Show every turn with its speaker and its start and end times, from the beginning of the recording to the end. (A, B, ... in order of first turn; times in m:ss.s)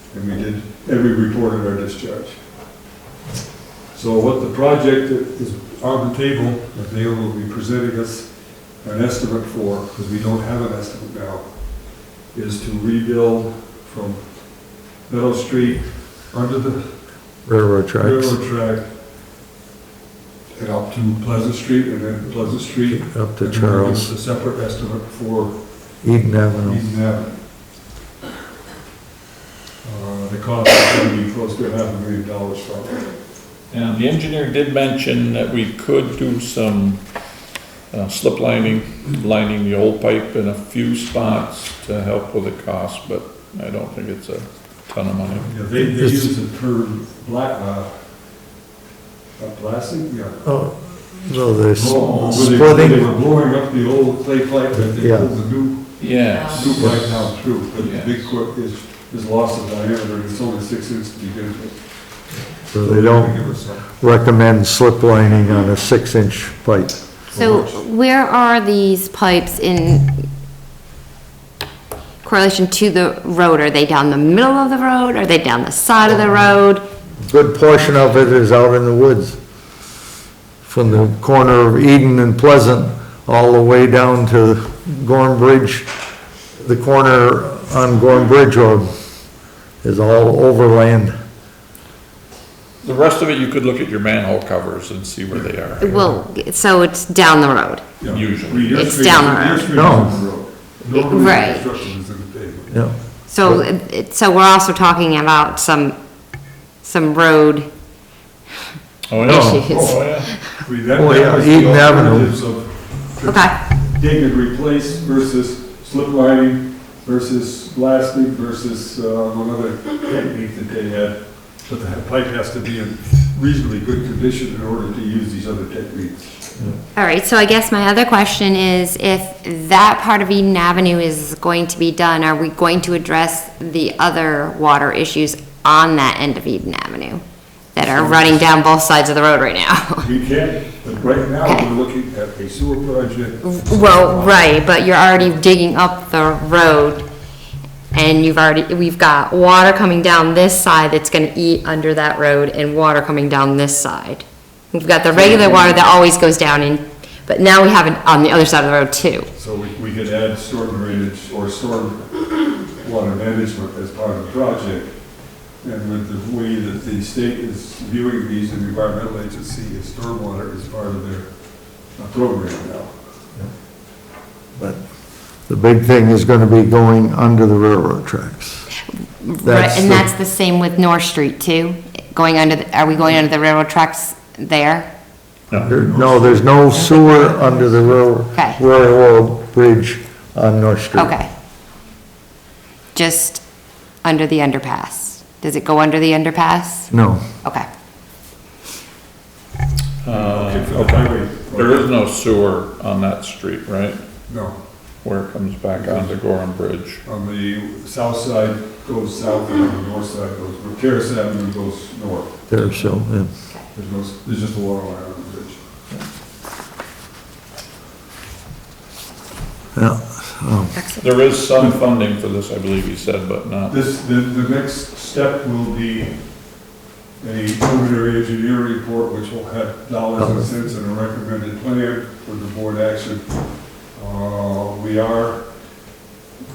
0:00.1-0:02.4 A
0:03.9-0:08.3 A
0:08.8-0:16.9 A
0:17.4-0:18.4 B
0:18.0-0:18.9 A
0:20.5-0:25.6 A
0:22.9-0:24.1 B
0:26.0-0:26.8 B
0:26.6-0:27.4 A
0:29.8-0:33.1 A
0:33.7-0:37.1 C
0:37.9-0:45.5 C
0:45.4-0:48.0 A
0:45.7-0:46.3 B
0:49.4-0:50.4 A
0:50.4-0:53.1 B
0:51.7-1:03.9 A
0:51.8-0:52.7 C
0:54.8-0:55.3 B
0:56.0-0:57.1 C
0:57.8-0:58.2 C
1:02.7-1:07.2 B
1:07.3-1:07.8 A
1:07.3-1:10.1 D
1:12.2-1:16.8 D
1:17.2-1:19.4 B
1:20.6-1:25.9 B
1:26.6-1:28.9 B
1:29.8-1:31.2 B
1:32.8-1:36.0 C
1:35.8-1:37.9 D
1:38.0-1:42.8 A
1:38.1-1:39.1 C
1:38.7-1:39.7 D
1:39.7-1:40.2 B
1:40.9-1:41.7 D
1:42.7-1:43.6 B
1:43.3-1:46.0 D
1:46.8-1:47.7 D
1:49.1-1:50.3 C
1:49.2-1:50.4 D
1:49.2-1:49.7 B
1:49.7-2:06.4 A
1:50.9-1:52.4 B
1:53.2-1:53.5 D
2:06.9-2:17.2 D
2:17.7-2:20.0 D
2:17.8-2:18.4 A
2:20.0-2:24.6 A
2:23.4-2:27.0 D
2:27.9-2:39.3 D
2:35.1-2:35.9 A
2:39.4-2:45.0 A
2:45.6-2:52.9 A
2:54.6-2:54.8 B
2:55.4-2:58.7 B
2:59.2-3:04.9 D
2:59.4-3:00.1 B
3:05.5-3:06.7 A
3:05.6-3:11.1 B
3:08.3-3:08.6 D
3:10.9-3:11.3 D
3:12.9-3:13.4 D
3:14.0-3:16.9 D
3:16.9-3:17.2 B
3:20.0-3:24.0 C
3:20.1-3:21.9 A
3:24.3-3:24.6 A
3:25.0-3:27.0 C
3:25.8-3:26.2 A
3:27.0-3:32.3 A
3:32.5-3:33.3 B
3:33.7-3:35.6 A
3:39.7-3:40.7 B
3:40.7-3:41.0 D
3:41.0-3:43.8 C
3:43.7-3:46.2 A
3:47.2-3:53.4 A
3:50.2-3:50.4 B
3:53.9-3:55.5 A